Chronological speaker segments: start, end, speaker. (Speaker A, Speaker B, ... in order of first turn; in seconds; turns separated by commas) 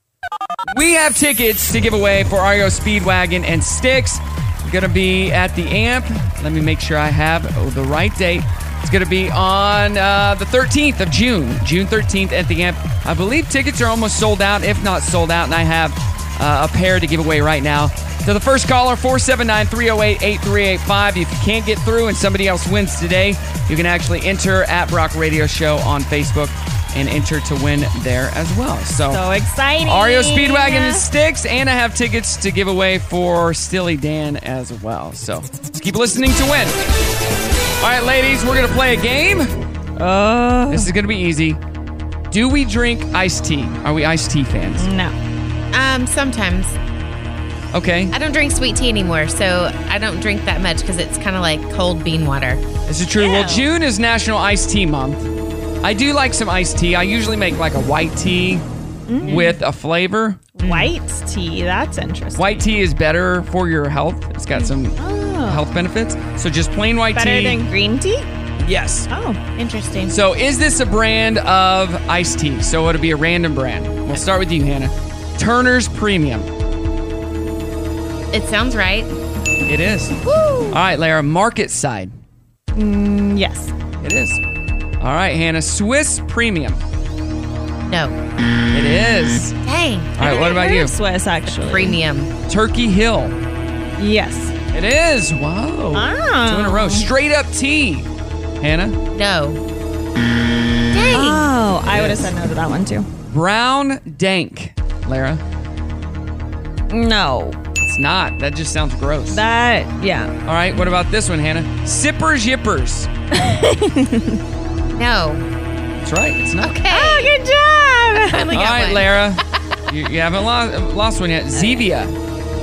Speaker A: 0.7-29.2, Speaker B: 29.1-31.1, Speaker A: 29.8-36.8, Speaker A: 37.8-39.5, Speaker B: 40.0-40.9, Speaker A: 40.7-41.6, Speaker A: 42.3-44.9, Speaker B: 44.8-45.1, Speaker C: 45.7-46.8, Speaker A: 47.7-48.1, Speaker C: 48.1-52.6, Speaker A: 52.9-55.3, Speaker C: 53.2-53.6, Speaker A: 55.8-58.6, Speaker B: 59.1-59.5, Speaker A: 59.2-60.5, Speaker C: 59.2-59.5, Speaker B: 60.5-62.6, Speaker C: 60.6-60.9, Speaker A: 62.4-67.7, Speaker B: 64.5-65.6, Speaker B: 67.1-68.3, Speaker A: 68.6-69.1, Speaker B: 69.1-69.4, Speaker C: 69.5-70.1, Speaker A: 70.1-76.5, Speaker C: 78.3-79.1, Speaker A: 79.7-80.2, Speaker C: 80.2-80.7, Speaker A: 80.7-82.1, Speaker B: 82.7-83.7, Speaker A: 84.0-84.4, Speaker A: 85.0-86.8, Speaker C: 87.8-88.2, Speaker A: 88.7-89.5, Speaker C: 89.6-90.3, Speaker A: 90.2-90.9, Speaker B: 90.2-92.0, Speaker C: 91.5-92.3, Speaker A: 92.5-93.4, Speaker B: 94.0-94.5, Speaker A: 94.7-98.1, Speaker B: 95.9-97.1, Speaker A: 98.6-99.0, Speaker C: 99.1-99.6, Speaker C: 100.9-101.5, Speaker B: 101.1-103.1, Speaker A: 101.9-102.3, Speaker A: 103.3-105.4, Speaker B: 106.9-107.6, Speaker A: 107.8-109.4, Speaker B: 109.3-110.3, Speaker A: 110.5-113.1, Speaker B: 113.3-114.4, Speaker C: 114.9-115.4, Speaker A: 116.0-116.7, Speaker C: 116.6-117.3, Speaker B: 116.9-118.5, Speaker C: 118.2-119.2, Speaker A: 118.5-122.1, Speaker B: 121.5-121.8